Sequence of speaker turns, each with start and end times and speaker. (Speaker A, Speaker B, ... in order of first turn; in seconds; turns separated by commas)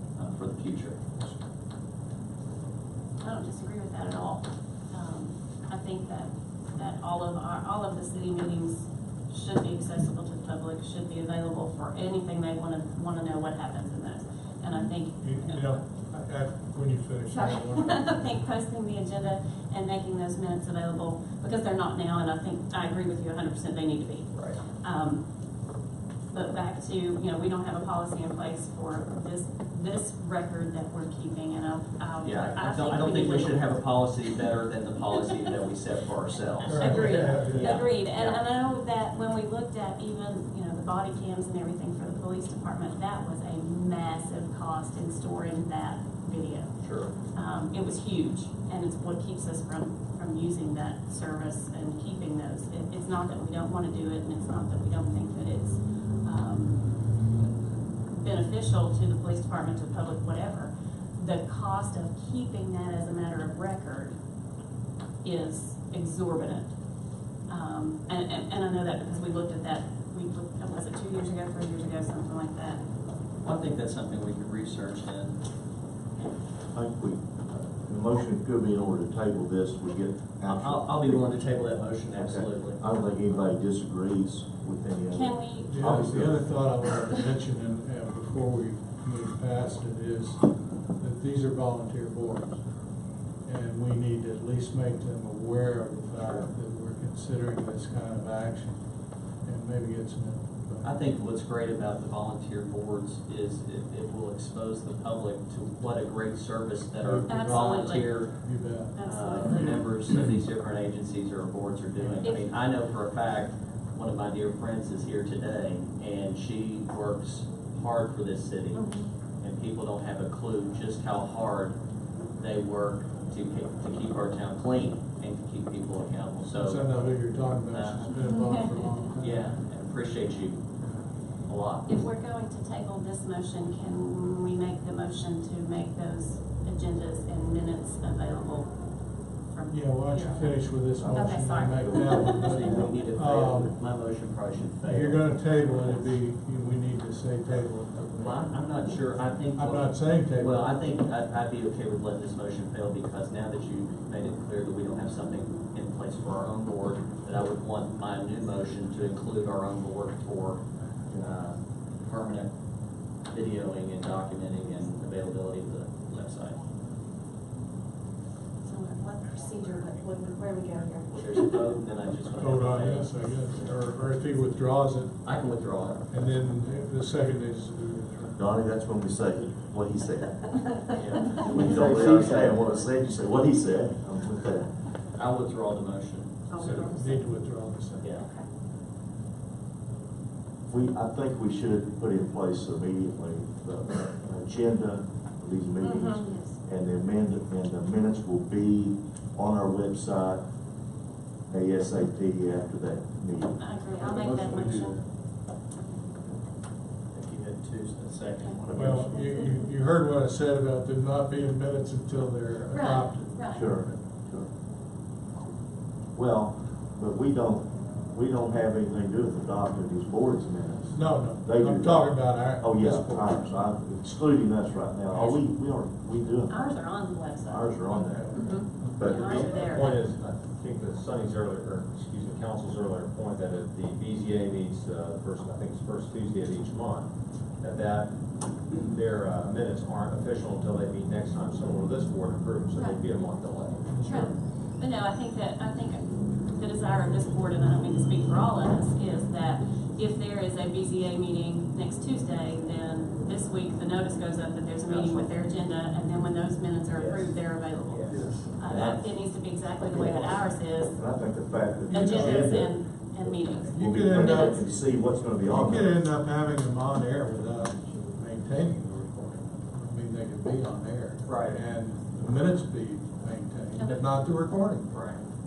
Speaker A: 0.2-1.0, Speaker B: 3.2-15.8, Speaker C: 15.2-18.3, Speaker B: 17.3-25.2, Speaker A: 24.4-24.6, Speaker B: 26.3-33.8, Speaker A: 32.2-38.4, Speaker C: 36.6-37.8, Speaker B: 36.7-46.8, Speaker A: 46.8-47.1, Speaker B: 47.3-57.2, Speaker B: 58.1-64.2, Speaker B: 65.2-66.7, Speaker B: 67.5-72.8, Speaker A: 73.4-75.4, Speaker D: 76.7-81.4, Speaker A: 80.5-82.8, Speaker D: 82.1-86.4, Speaker B: 85.1-85.8, Speaker C: 85.7-90.5, Speaker C: 91.0-92.6, Speaker C: 93.5-98.8, Speaker C: 99.4-101.0, Speaker A: 100.8-108.4, Speaker C: 107.0-107.8, Speaker B: 107.3-108.2, Speaker C: 108.3-109.8, Speaker B: 109.0-109.8, Speaker A: 109.0-118.8, Speaker B: 118.7-119.1, Speaker A: 119.4-121.8, Speaker A: 122.4-126.9, Speaker C: 126.5-129.5, Speaker A: 127.7-128.2, Speaker B: 128.1-128.9, Speaker A: 129.2-130.6, Speaker A: 131.5-131.9, Speaker B: 131.9-138.7, Speaker B: 139.5-140.6, Speaker C: 139.7-143.7, Speaker D: 141.0-142.9, Speaker B: 141.1-142.6, Speaker A: 142.4-145.2, Speaker C: 144.8-148.5, Speaker A: 148.2-162.5, Speaker C: 149.5-150.8, Speaker A: 163.3-166.6, Speaker B: 168.6-171.5, Speaker A: 171.1-173.8, Speaker C: 172.4-175.2, Speaker A: 175.2-176.1, Speaker C: 176.1-178.4, Speaker D: 178.4-180.6, Speaker A: 180.9-182.6, Speaker D: 181.4-184.7, Speaker A: 185.1-186.5, Speaker B: 186.5-187.2, Speaker C: 186.6-188.1, Speaker B: 188.2-188.4, Speaker D: 190.7-200.4, Speaker B: 195.8-196.6, Speaker D: 201.5-203.6, Speaker B: 203.6-205.0, Speaker C: 204.0-205.0, Speaker A: 207.1-209.1, Speaker B: 208.4-209.6, Speaker D: 208.7-209.1, Speaker C: 208.7-213.8, Speaker B: 212.7-213.7, Speaker D: 213.5-213.9, Speaker D: 216.2-226.8, Speaker C: 220.9-223.4, Speaker B: 226.5-230.1, Speaker D: 227.5-229.7, Speaker E: 229.0-237.1, Speaker E: 237.6-238.2, Speaker E: 238.7-243.9, Speaker B: 244.0-261.0, Speaker A: 254.8-255.3, Speaker A: 256.9-257.4, Speaker A: 257.9-259.1, Speaker D: 259.9-262.8, Speaker B: 261.9-264.6, Speaker C: 261.9-262.7, Speaker C: 263.7-264.6, Speaker D: 263.8-265.9, Speaker C: 265.5-274.9, Speaker A: 271.2-271.6, Speaker A: 274.9-275.2